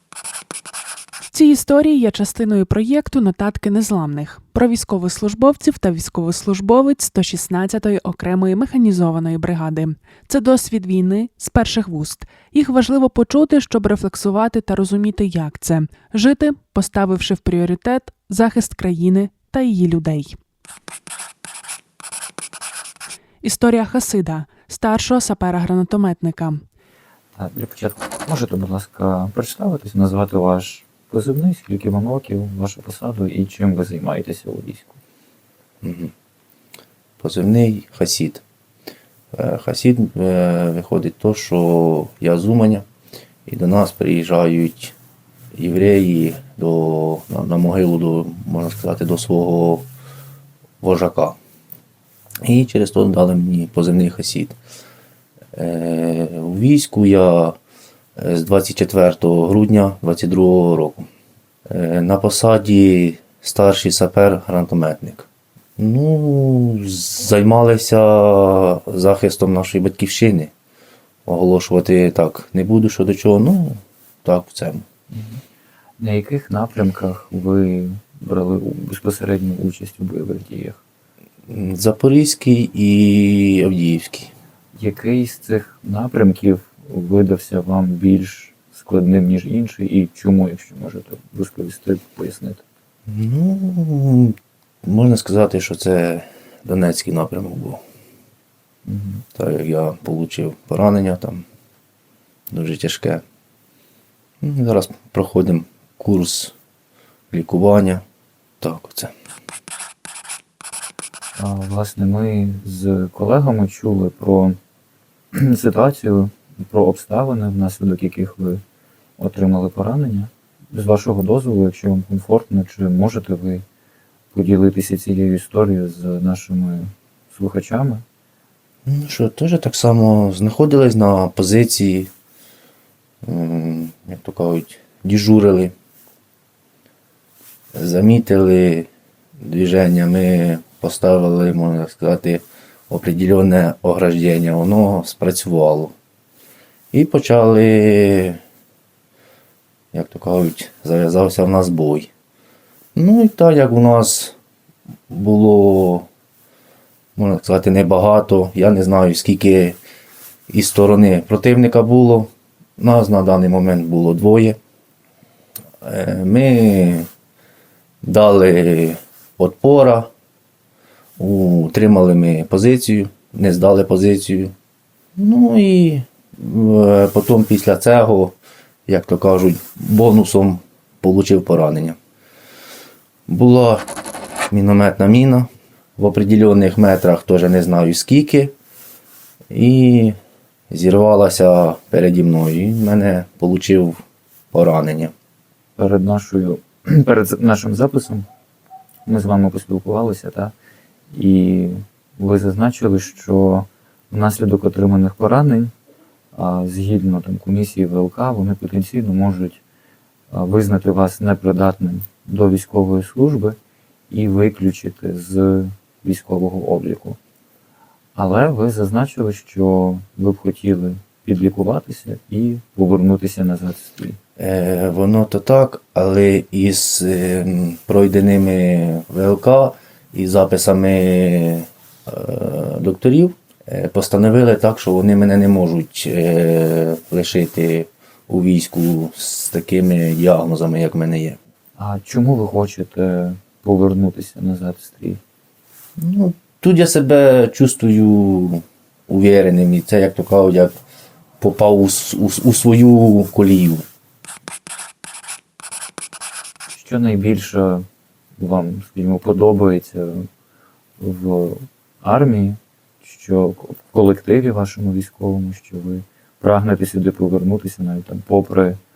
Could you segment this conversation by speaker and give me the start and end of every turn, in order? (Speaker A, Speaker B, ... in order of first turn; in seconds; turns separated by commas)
Speaker A: 1.3-20.4, Speaker A: 23.4-26.6, Speaker B: 27.4-35.0, Speaker C: 35.8-36.1, Speaker C: 37.2-38.4, Speaker C: 39.3-42.8, Speaker C: 43.5-44.9, Speaker C: 45.5-49.9, Speaker C: 50.8-51.4, Speaker C: 52.4-54.6, Speaker C: 55.5-57.6, Speaker C: 58.1-61.1, Speaker C: 61.7-65.3, Speaker C: 65.8-70.5, Speaker C: 71.2-74.8, Speaker B: 75.1-75.4, Speaker B: 76.0-80.8, Speaker C: 81.5-84.3, Speaker B: 84.7-92.6, Speaker C: 93.1-97.8, Speaker B: 98.8-99.2, Speaker C: 99.3-101.4, Speaker C: 102.5-103.2, Speaker C: 104.4-106.5, Speaker C: 107.3-108.0, Speaker C: 108.6-109.1, Speaker B: 111.3-114.6, Speaker B: 115.3-118.6, Speaker B: 119.2-123.6, Speaker B: 124.3-128.0, Speaker C: 128.8-132.1, Speaker C: 133.2-135.7, Speaker C: 137.7-138.9, Speaker C: 139.4-145.9, Speaker C: 146.9-148.4, Speaker C: 149.9-152.1, Speaker C: 152.9-154.3, Speaker C: 155.1-156.1, Speaker C: 157.2-159.8, Speaker C: 160.5-164.6, Speaker C: 165.8-167.1, Speaker C: 168.0-170.1, Speaker C: 171.2-174.5, Speaker C: 175.2-178.3, Speaker C: 178.9-182.0, Speaker C: 183.3-183.9, Speaker C: 184.5-188.5, Speaker C: 189.5-190.1, Speaker C: 190.7-195.1, Speaker B: 195.8-198.3, Speaker B: 199.0-200.5, Speaker B: 201.1-205.7, Speaker B: 206.3-209.6, Speaker B: 210.3-213.6, Speaker B: 214.1-217.2, Speaker B: 218.1-224.2, Speaker C: 224.4-241.4, Speaker B: 241.8-245.2, Speaker C: 246.0-250.7, Speaker C: 251.4-253.8, Speaker B: 256.7-257.9, Speaker B: 258.4-260.3, Speaker B: 261.0-268.8